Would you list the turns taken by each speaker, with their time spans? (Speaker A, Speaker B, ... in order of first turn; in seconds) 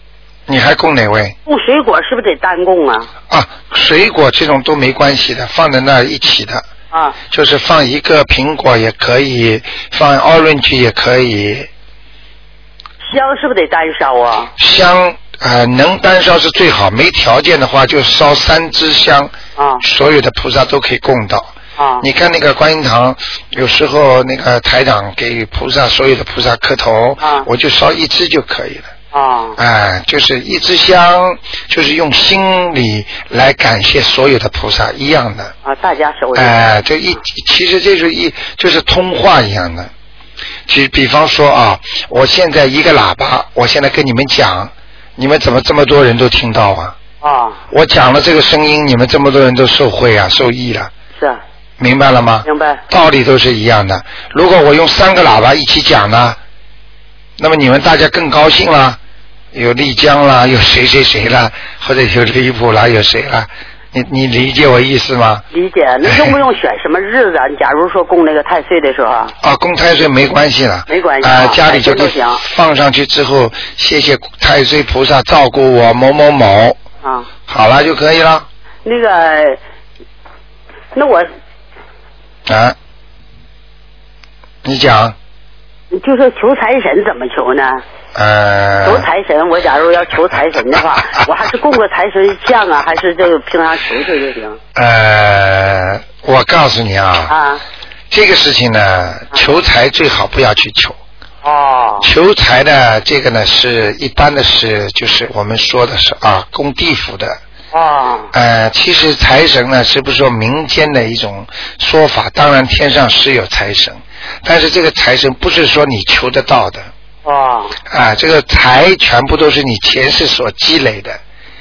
Speaker A: 0.5-1.4, 3.3-6.7, 7.2-11.7, 14.6-28.9, 29.6-35.5, 36.3-39.9, 40.7-47.0, 47.7-50.9, 51.8-56.4, 57.4-59.0, 59.5-65.4, 66.0-66.3, 69.4-76.8, 77.5-78.5, 82.5-82.8, 84.6-85.2, 88.1-89.1, 94.7-97.3, 98.1-101.0, 102.0-107.4, 108.3-116.9, 117.9-121.2
Speaker B: 1.4-3.1, 6.9-7.2, 13.1-14.5, 19.6-19.8, 21.8-22.0, 27.2-27.5, 29.1-29.6, 35.6-36.6, 47.2-47.6, 52.4-52.8, 65.5-69.3, 70.9-72.4, 77.0-77.3, 78.8-79.6, 80.9-81.3, 85.9-87.8, 88.8-94.6, 97.3-97.6, 101.4-102.1, 107.7-108.3, 117.2-117.8